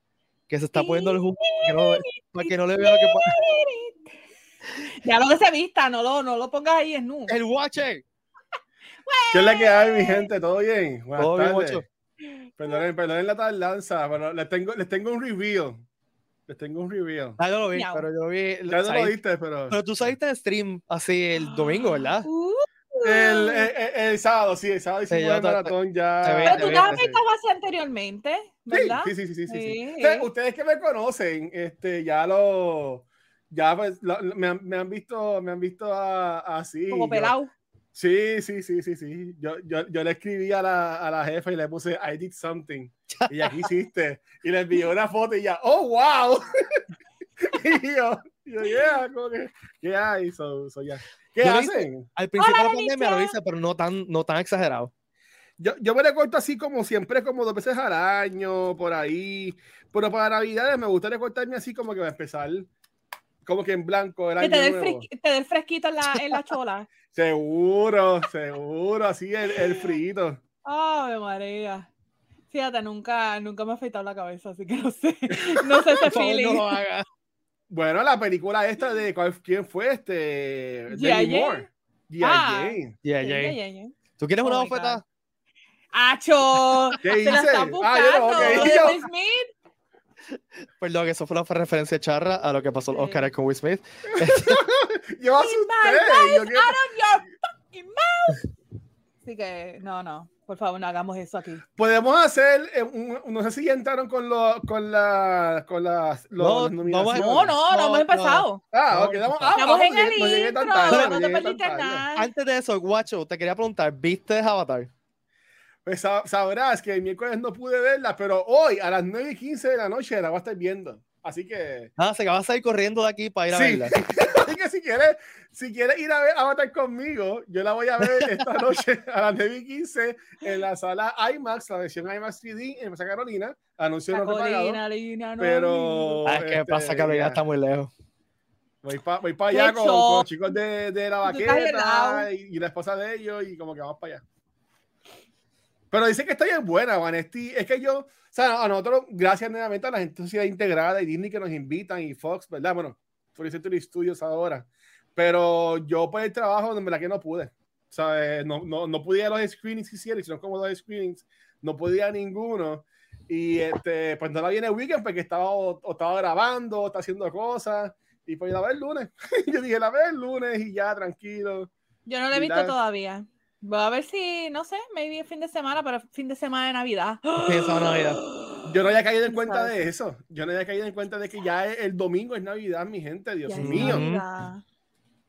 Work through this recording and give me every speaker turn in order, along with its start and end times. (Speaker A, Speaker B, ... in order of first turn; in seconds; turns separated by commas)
Speaker A: 0.5-3.4, Speaker B: 0.8-4.1, Speaker B: 4.8-7.3, Speaker A: 7.3-8.0, Speaker B: 9.1-10.3, Speaker C: 9.3-11.8, Speaker A: 11.2-11.8, Speaker C: 12.6-15.8, Speaker C: 16.5-17.4, Speaker A: 17.4-19.1, Speaker B: 17.7-18.1, Speaker C: 18.7-19.8, Speaker A: 19.7-22.3, Speaker B: 21.4-23.7, Speaker C: 23.0-27.2, Speaker A: 25.1-27.0, Speaker B: 26.5-30.3, Speaker C: 28.7-37.3, Speaker B: 36.9-37.5, Speaker C: 38.0-46.8, Speaker A: 43.1-43.7, Speaker C: 47.4-52.1, Speaker A: 51.4-54.9, Speaker B: 52.4-53.4, Speaker C: 55.6-62.7, Speaker C: 63.5-65.1, Speaker B: 64.4-66.9, Speaker C: 67.1-70.4, Speaker B: 70.7-71.9, Speaker B: 72.5-76.7, Speaker A: 76.0-77.0, Speaker C: 77.7-83.0, Speaker B: 80.9-81.7, Speaker B: 82.2-85.0, Speaker A: 83.0-83.6, Speaker A: 84.2-85.0, Speaker B: 85.9-89.5, Speaker A: 86.7-87.0, Speaker C: 87.0-89.0, Speaker A: 88.4-88.8, Speaker A: 90.3-94.6, Speaker B: 92.9-93.3, Speaker C: 94.2-96.8, Speaker B: 95.4-98.4, Speaker B: 99.2-101.6, Speaker C: 101.8-107.6, Speaker A: 106.4-109.6, Speaker B: 107.1-108.6, Speaker C: 108.7-112.0, Speaker B: 109.5-112.3, Speaker A: 110.9-111.2, Speaker A: 112.2-114.9, Speaker C: 115.8-121.9, Speaker A: 122.0-124.0, Speaker C: 123.5-134.8, Speaker A: 128.0-128.5, Speaker B: 134.1-136.2, Speaker C: 135.4-137.4, Speaker A: 136.2-137.9, Speaker C: 138.8-144.2, Speaker B: 139.5-140.3, Speaker B: 141.2-142.3, Speaker C: 145.9-171.7, Speaker B: 172.1-178.7, Speaker C: 172.3-172.8, Speaker A: 177.4-178.2, Speaker C: 178.6-184.0, Speaker B: 179.3-179.7, Speaker B: 183.4-184.6, Speaker A: 183.6-184.2